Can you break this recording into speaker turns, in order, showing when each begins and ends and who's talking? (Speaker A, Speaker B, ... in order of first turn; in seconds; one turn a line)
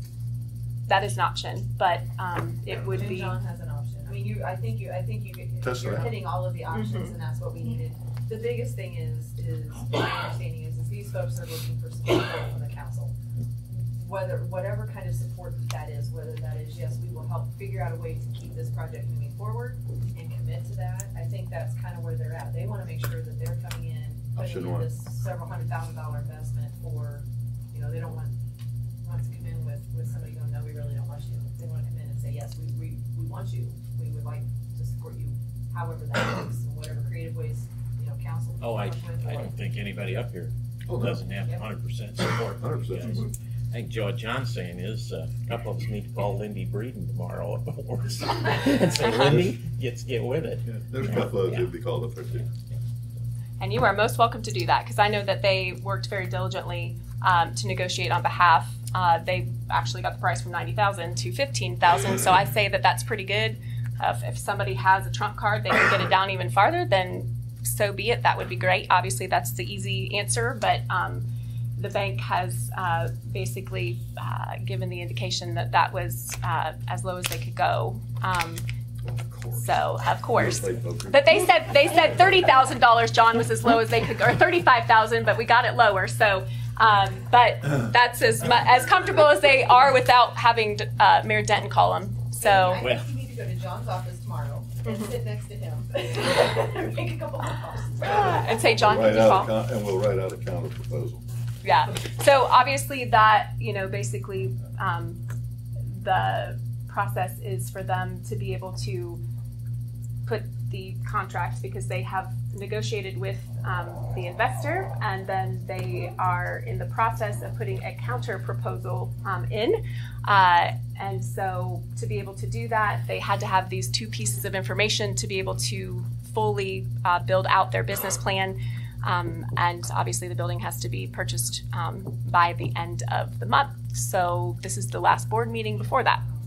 Speaker A: 0.9-3.4
Speaker B: 2.7-13.1
Speaker C: 5.6-6.2
Speaker A: 6.7-7.1
Speaker B: 13.7-28.4
Speaker C: 24.4-24.9
Speaker B: 29.0-39.6
Speaker D: 38.6-51.7
Speaker C: 40.9-41.2
Speaker C: 42.6-43.3
Speaker C: 49.2-49.6
Speaker C: 50.7-52.5
Speaker A: 53.6-71.3
Speaker A: 71.8-78.6
Speaker C: 79.0-79.8
Speaker A: 79.5-92.8
Speaker C: 80.3-81.5
Speaker B: 92.4-98.4
Speaker D: 92.8-93.1
Speaker A: 94.8-95.1
Speaker A: 98.0-99.5
Speaker C: 98.7-101.2
Speaker A: 101.6-105.2
Speaker A: 105.9-109.2
Speaker A: 110.2-136.2